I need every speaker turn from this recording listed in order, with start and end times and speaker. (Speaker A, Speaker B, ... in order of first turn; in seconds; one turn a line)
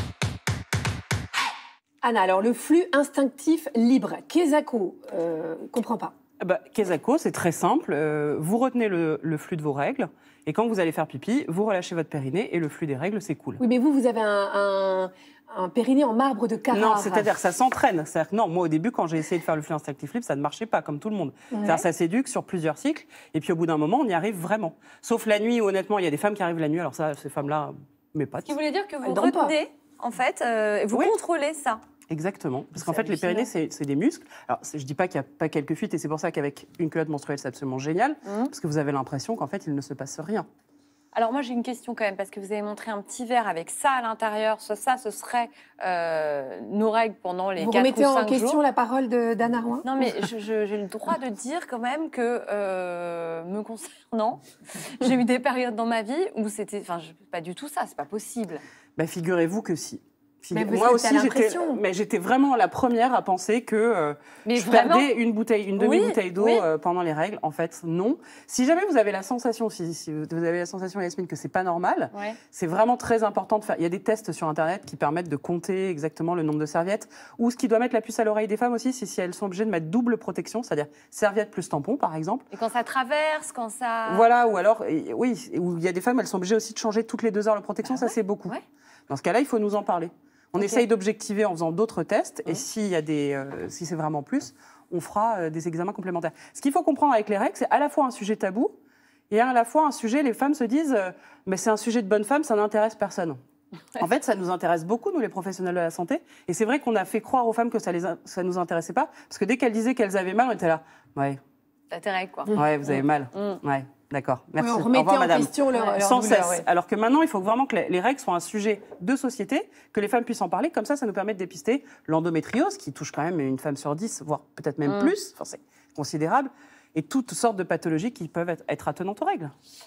Speaker A: 2.0-6.1
Speaker B: 6.4-13.6
Speaker A: 13.6-17.3
Speaker B: 16.7-28.6
Speaker C: 28.4-31.8
Speaker A: 29.0-29.5
Speaker B: 32.1-40.5
Speaker C: 32.8-33.5
Speaker C: 38.2-38.5
Speaker C: 41.1-48.6
Speaker A: 47.6-49.9
Speaker C: 49.8-58.6
Speaker B: 59.0-82.5
Speaker A: 60.5-61.8
Speaker C: 64.4-65.1
Speaker C: 65.8-66.6
Speaker C: 72.1-72.4
Speaker C: 82.5-84.3
Speaker B: 84.0-88.5
Speaker C: 87.8-88.6
Speaker B: 89.1-98.8
Speaker C: 90.6-90.8
Speaker B: 99.3-103.4
Speaker B: 104.0-111.4
Speaker C: 111.9-113.6
Speaker B: 112.5-129.5
Speaker A: 114.6-116.7
Speaker C: 124.8-125.1